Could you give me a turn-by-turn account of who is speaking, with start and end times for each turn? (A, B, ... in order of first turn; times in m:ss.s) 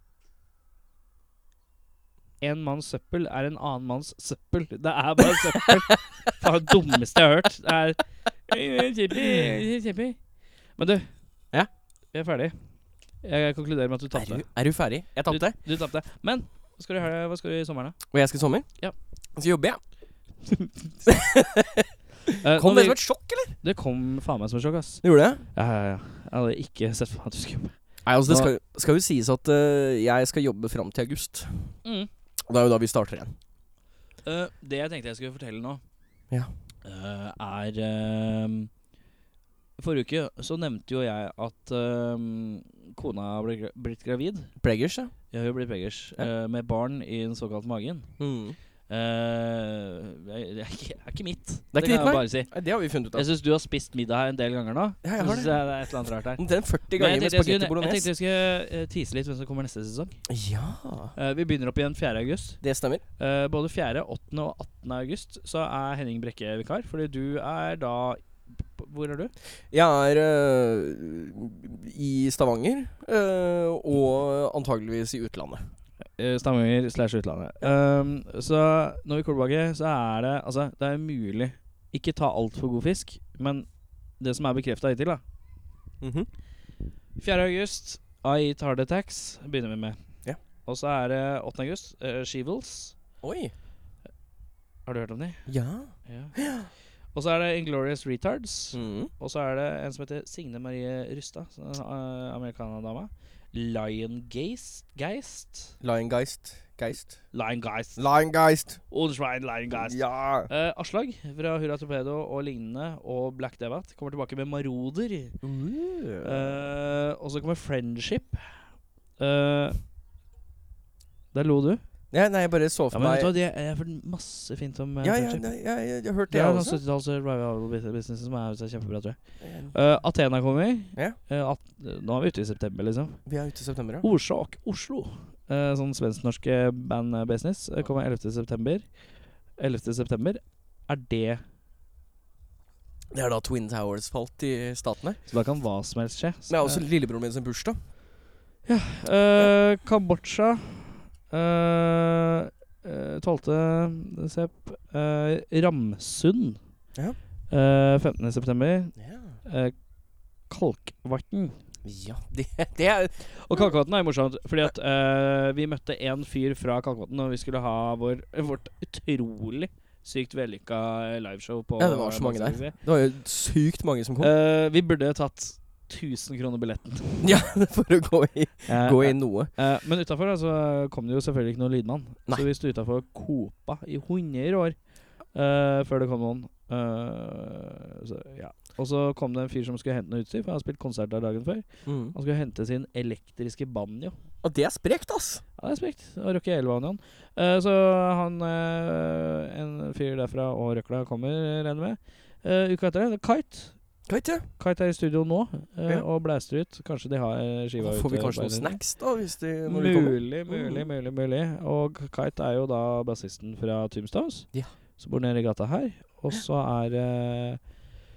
0:02.4-0:10.2 A
0:10.8-0:11.1 A
0:12.1-0:12.6 A
0:13.2-0:14.5 A
0:14.2-0:15.6 B
0:15.3-0:18.0 A
0:18.1-0:18.7 B
0:19.4-0:19.8 B
0:21.1-0:21.9 B
0:22.4-0:28.5 A
0:22.5-0:23.6 B
0:25.0-0:25.4 B
0:28.0-0:31.8 B
0:31.8-0:32.1 A
0:32.5-0:33.4 B
0:34.2-0:35.8 A
0:36.8-0:38.7 A
0:39.8-0:44.5 A
0:44.6-0:45.1 B
0:45.3-0:48.1 A
0:48.2-0:48.6 B
0:48.9-0:52.5 A
0:51.7-0:53.3 B
0:53.1-1:00.2 A
0:55.0-0:55.6 B
0:56.4-0:58.1 B
1:00.3-1:01.2 B
1:01.2-1:02.6 A
1:02.6-1:03.0 B
1:03.2-1:09.3 A
1:09.7-1:15.7 B
1:16.2-1:25.2 A
1:26.0-1:26.3 B
1:27.2-1:30.0 A
1:30.6-1:33.0 A
1:33.2-1:33.5 B
1:34.9-1:35.5 A
1:35.5-1:36.7 B
1:36.1-1:36.4 A
1:37.1-1:45.8 A
1:38.7-1:39.1 B
1:45.8-1:47.2 B
1:47.3-1:48.0 A
1:48.0-1:48.8 B
1:48.9-1:55.4 A
1:49.8-1:50.5 B
1:55.4-1:56.6 B
1:56.2-1:58.6 A
1:59.2-1:59.8 A
2:01.3-2:01.8 A
2:02.1-2:03.3 B
2:02.9-2:05.5 A
2:05.0-2:06.8 B
2:06.3-2:09.2 A
2:09.4-2:09.8 B
2:09.7-2:13.2 A
2:13.3-2:14.1 B
2:14.0-2:18.8 A
2:19.6-2:21.4 A
2:23.1-2:25.2 B
2:25.3-2:26.8 A
2:26.5-2:27.8 B
2:28.7-2:36.6 A
2:37.5-2:39.7 A
2:39.0-2:39.4 B
2:40.5-2:41.6 A
2:41.8-2:43.7 B
2:43.4-2:52.8 A
2:51.8-2:54.3 B
2:54.2-2:57.2 A
2:57.2-2:59.5 B
2:58.7-3:04.8 A
3:05.3-3:14.2 A
3:11.9-3:12.2 B
3:14.4-3:15.4 B
3:15.6-3:23.8 A
3:24.1-3:24.5 B
3:24.6-3:28.8 A
3:27.8-3:30.9 B
3:29.7-3:37.6 A